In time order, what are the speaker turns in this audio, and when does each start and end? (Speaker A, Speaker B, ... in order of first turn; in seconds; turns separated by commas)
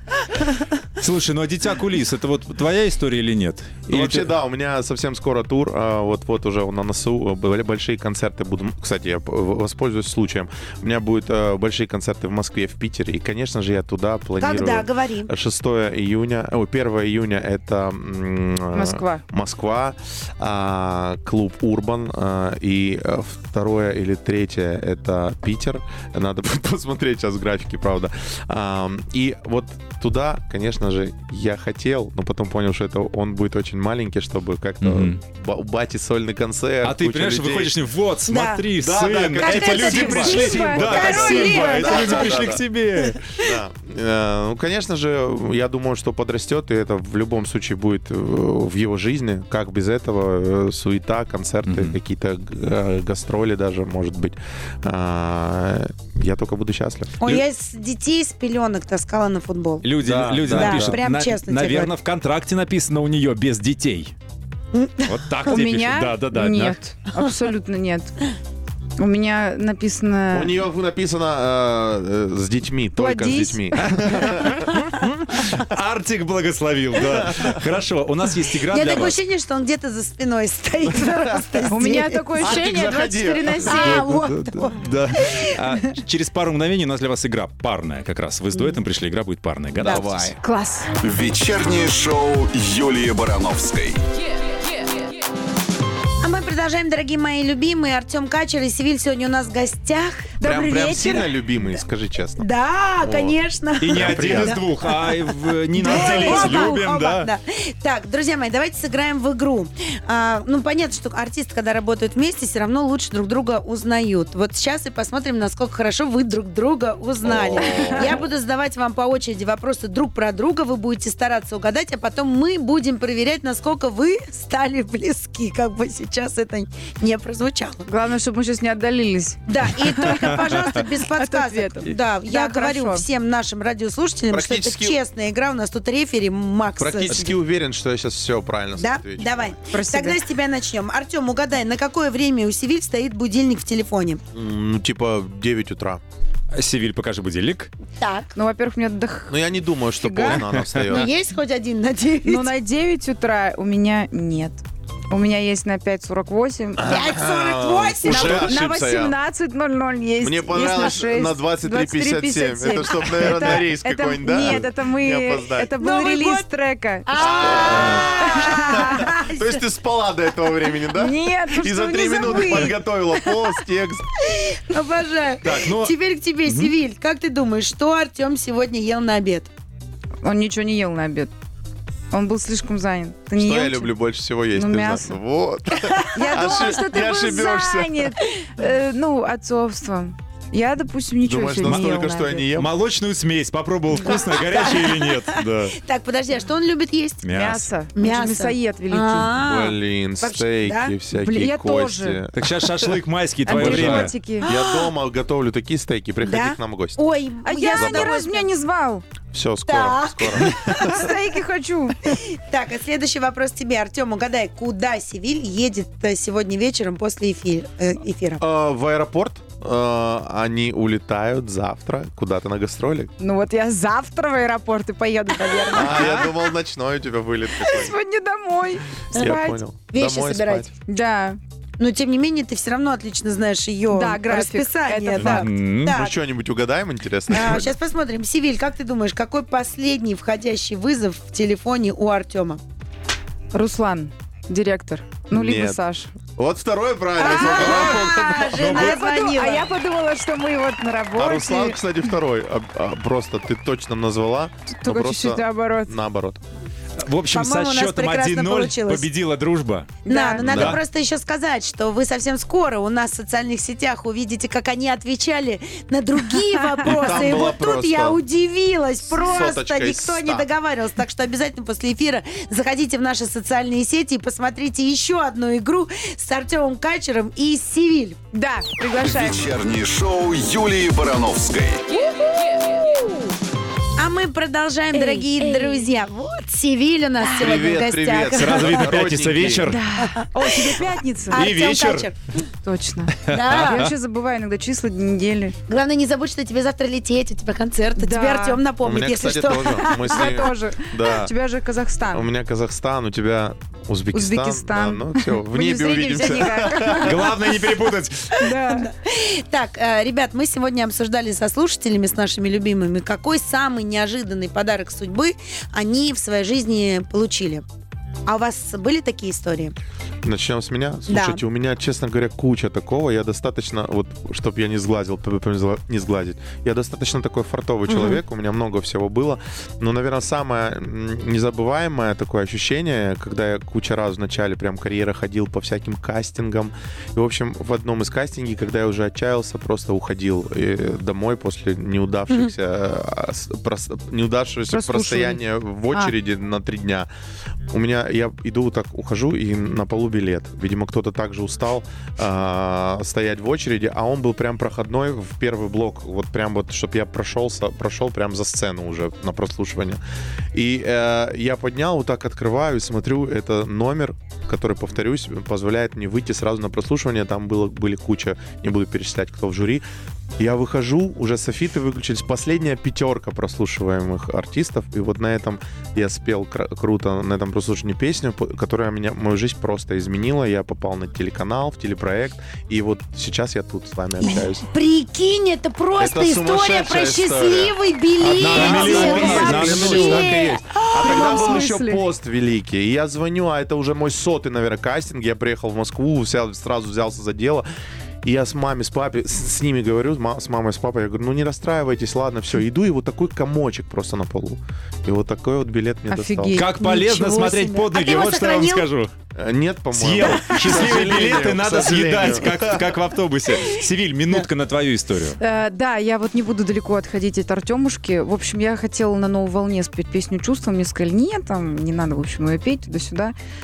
Speaker A: 1.0-4.3, Speaker B: 3.9-37.8, Speaker C: 14.4-15.3, Speaker D: 18.7-19.2, Speaker A: 34.8-35.2, Speaker A: 36.8-43.6, Speaker C: 38.2-38.6, Speaker B: 38.8-42.6, Speaker C: 39.4-42.5, Speaker D: 39.6-42.0, Speaker B: 43.4-57.2, Speaker A: 51.7-51.9, Speaker C: 57.2-59.9, Speaker A: 59.8-64.1, Speaker B: 60.0-61.0, Speaker C: 60.5-61.9, Speaker C: 64.7-65.6, Speaker A: 65.0-66.8, Speaker D: 65.5-68.3, Speaker D: 69.0-70.5, Speaker B: 70.3-74.6, Speaker D: 73.0-73.7, Speaker A: 73.8-79.2, Speaker B: 77.2-77.6, Speaker C: 78.7-82.2, Speaker D: 81.7-84.1, Speaker B: 82.3-83.7, Speaker C: 83.7-85.6, Speaker A: 83.7-90.3, Speaker C: 89.8-90.1, Speaker B: 89.8-90.3, Speaker D: 90.4-90.9, Speaker E: 91.0-94.0, Speaker C: 96.2-100.3, Speaker D: 100.4-101.3, Speaker B: 100.4-102.5, Speaker C: 102.4-104.9, Speaker B: 103.0-103.4, Speaker A: 103.8-107.3, Speaker B: 103.9-104.6, Speaker C: 105.8-127.9, Speaker D: 105.8-106.9, Speaker B: 117.2-118.2, Speaker D: 117.7-118.0, Speaker D: 127.9-133.1, Speaker C: 129.5-137.4, Speaker B: 134.3-135.0, Speaker B: 136.8-139.5, Speaker C: 138.8-144.2, Speaker D: 139.7-140.2, Speaker B: 144.3-146.0, Speaker A: 146.5-147.7, Speaker C: 148.0-148.4, Speaker D: 148.3-150.4, Speaker B: 149.3-151.1, Speaker A: 150.3-150.6, Speaker C: 150.9-152.5, Speaker D: 152.2-157.0, Speaker B: 156.8-159.1, Speaker C: 156.8-158.6, Speaker D: 158.1-169.2, Speaker B: 160.2-165.7, Speaker C: 165.8-166.5, Speaker C: 167.1-169.6, Speaker B: 167.2-174.1, Speaker D: 170.9-173.5, Speaker C: 174.2-179.5, Speaker A: 175.4-175.9, Speaker A: 176.4-176.7, Speaker D: 180.2-181.3, Speaker D: 182.1-183.9, Speaker B: 183.4-188.2, Speaker D: 184.5-185.2, Speaker C: 185.9-186.6, Speaker D: 186.1-192.5, Speaker B: 191.2-192.7, Speaker A: 191.6-191.9, Speaker A: 192.6-195.8, Speaker C: 194.1-197.2, Speaker A: 197.2-197.7, Speaker D: 197.3-199.3, Speaker C: 197.9-200.9, Speaker B: 199.3-202.9, Speaker D: 201.1-202.2, Speaker A: 202.3-204.1, Speaker D: 203.4-204.5, Speaker B: 203.5-207.0, Speaker C: 204.4-204.9, Speaker C: 206.2-208.5, Speaker D: 207.4-209.0, Speaker B: 207.7-208.2, Speaker B: 209.3-211.1, Speaker C: 209.7-211.0, Speaker D: 210.6-212.1, Speaker C: 212.1-218.4, Speaker B: 218.4-223.1, Speaker D: 223.2-226.4, Speaker B: 225.7-227.9, Speaker A: 225.8-226.2, Speaker D: 227.6-229.6, Speaker B: 229.1-230.7, Speaker C: 229.1-229.4, Speaker C: 229.9-230.7, Speaker D: 230.8-231.4, Speaker C: 231.8-236.2, Speaker D: 233.9-235.5, Speaker A: 235.2-235.9, Speaker B: 235.8-237.7, Speaker C: 237.3-242.6, Speaker D: 243.5-246.1, Speaker B: 245.3-245.8, Speaker B: 246.3-248.7, Speaker C: 247.2-249.7, Speaker D: 247.2-248.0, Speaker A: 247.5-249.0, Speaker D: 248.7-251.8, Speaker B: 251.2-256.4, Speaker D: 254.8-255.9, Speaker A: 257.0-260.8, Speaker C: 257.3-259.1, Speaker D: 260.0-260.6, Speaker C: 260.1-278.2, Speaker B: 260.4-260.8, Speaker B: 266.8-268.2, Speaker B: 269.0-270.5, Speaker D: 278.3-279.4, Speaker E: 279.0-281.9, Speaker D: 282.5-283.3, Speaker C: 284.0-288.8, Speaker D: 284.9-285.9, Speaker B: 287.3-289.8, Speaker A: 288.3-289.8, Speaker D: 289.6-291.4, Speaker C: 290.0-292.1, Speaker A: 291.3-292.1, Speaker D: 292.6-295.6, Speaker A: 293.2-293.9, Speaker C: 293.3-293.9, Speaker C: 295.7-300.4, Speaker D: 298.0-298.6, Speaker B: 298.8-301.3, Speaker D: 299.9-302.2, Speaker B: 302.1-307.2, Speaker D: 304.1-307.1, Speaker A: 306.9-308.5, Speaker D: 308.3-308.9, Speaker C: 308.4-317.6, Speaker C: 318.2-319.7, Speaker B: 320.2-347.1, Speaker C: 321.1-321.4, Speaker C: 327.9-328.2, Speaker D: 344.7-346.1, Speaker B: 347.7-360.0, Speaker B: 360.5-369.8, Speaker B: 370.4-384.6, Speaker C: 384.2-391.5, Speaker B: 386.0-397.6, Speaker A: 388.3-390.3, Speaker D: 388.6-392.0, Speaker B: 398.2-406.6, Speaker D: 406.1-406.8, Speaker A: 406.5-409.1, Speaker C: 406.8-408.9, Speaker B: 409.3-413.0, Speaker A: 409.9-415.4, Speaker D: 415.4-423.3